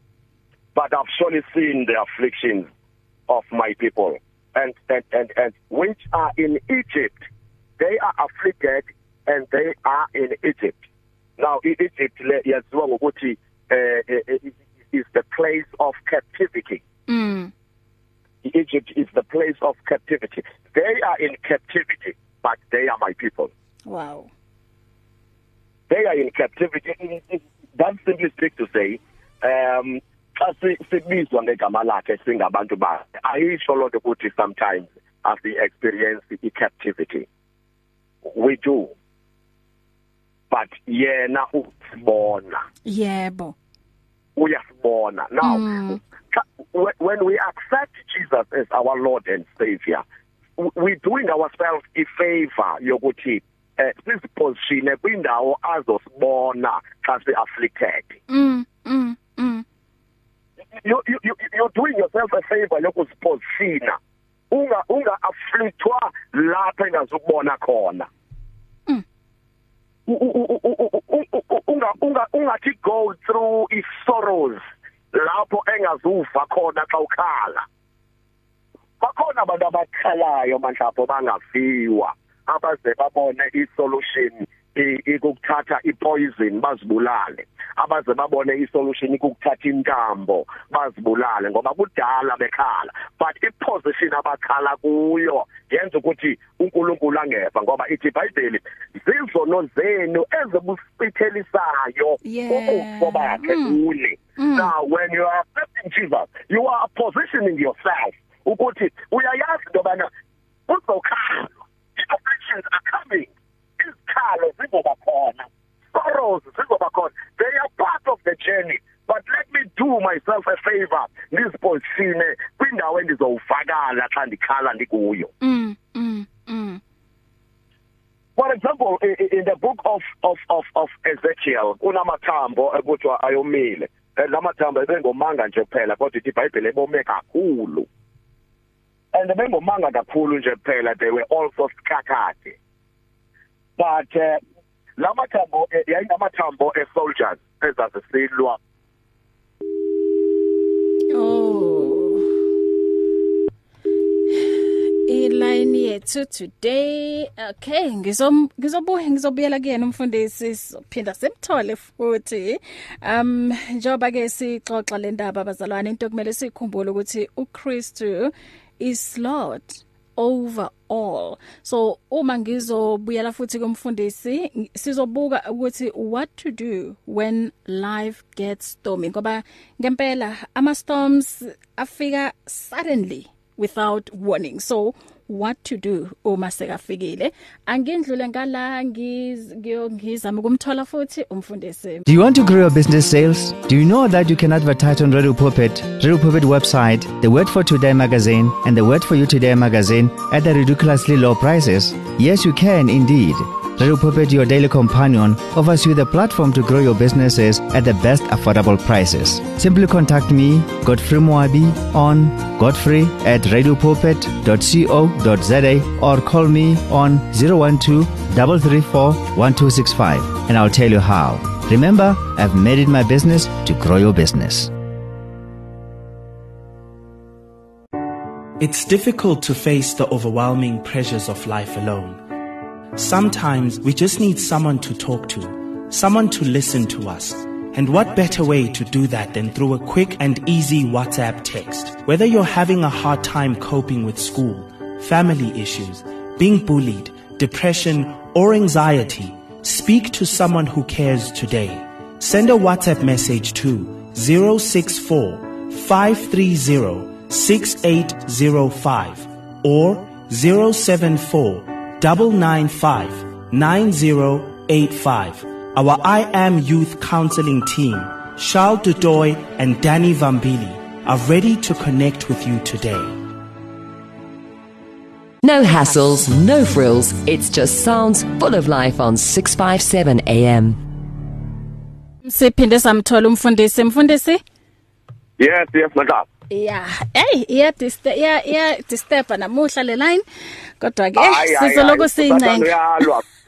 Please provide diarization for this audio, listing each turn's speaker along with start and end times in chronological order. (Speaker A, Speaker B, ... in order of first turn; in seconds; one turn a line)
Speaker A: 0.7-2.7
Speaker A: 3.3-7.3
Speaker A: 7.8-10.8
Speaker A: 11.4-16.8
Speaker B: 17.1-17.5
Speaker A: 18.4-23.5
Speaker B: 23.9-24.3
Speaker A: 25.9-37.3
Speaker A: 38.2-38.9
Speaker A: 40.5-42.6
Speaker B: 42.8-43.5
Speaker A: 44.4-50.0
Speaker B: 45.4-46.0
Speaker A: 50.6-58.2
Speaker B: 58.3-59.6
Speaker A: 60.7-64.0
Speaker A: 64.5-68.1
Speaker A: 70.1-77.7
Speaker A: 79.0-110.1
Speaker B: 102.2-103.8
Speaker B: 104.4-104.7
Speaker A: 110.7-125.3
Speaker B: 125.4-126.8
Speaker A: 128.4-137.9
Speaker A: 139.1-142.6
Speaker A: 143.8-144.4
Speaker A: 145.0-148.6
Speaker B: 151.1-152.3
Speaker B: 154.3-192.0
Speaker C: 192.1-224.7
Speaker D: 228.6-232.2
Speaker D: 232.9-273.2
Speaker E: 275.4-280.8
Speaker B: 282.2-284.4
Speaker A: 285.4-286.2
Speaker B: 286.5-290.2
Speaker B: 290.8-293.0
Speaker A: 291.1-293.2